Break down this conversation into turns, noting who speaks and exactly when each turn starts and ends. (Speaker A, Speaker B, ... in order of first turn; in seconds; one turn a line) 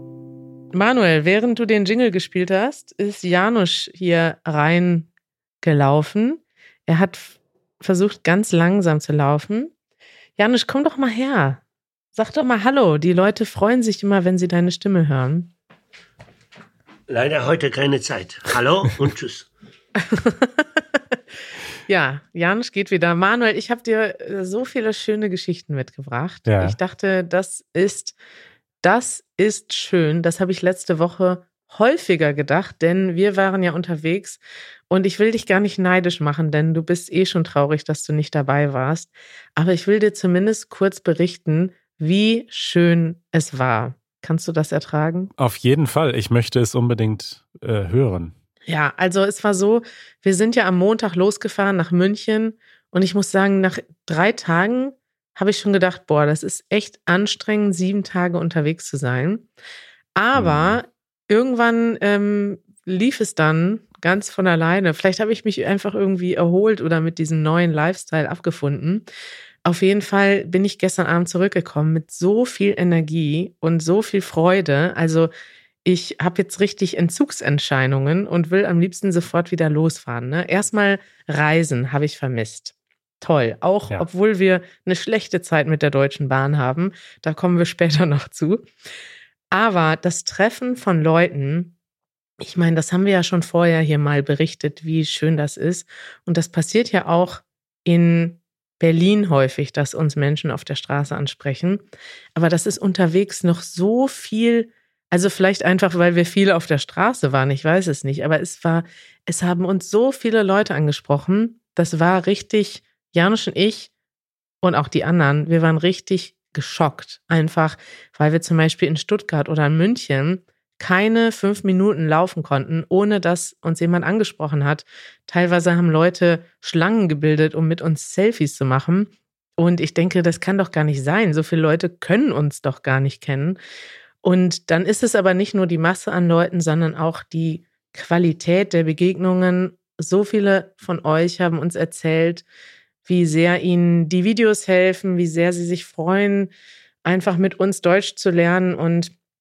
Speaker A: 0.7-5.1
Speaker A: 5.6-9.7
Speaker A: 10.4-11.6
Speaker A: 12.1-15.5
Speaker B: 17.1-19.5
Speaker A: 20.0-20.6
Speaker A: 21.9-28.2
Speaker C: 26.5-26.8
Speaker A: 28.8-45.3
Speaker C: 45.4-48.3
Speaker A: 48.7-59.5
Speaker A: 60.2-69.0
Speaker C: 60.3-60.8
Speaker A: 69.7-75.3
Speaker A: 75.8-88.7
Speaker A: 89.5-91.7
Speaker A: 92.4-101.8
Speaker A: 102.3-113.9
Speaker A: 114.6-133.6
Speaker A: 134.2-142.4
Speaker A: 143.1-146.5
Speaker A: 147.1-149.1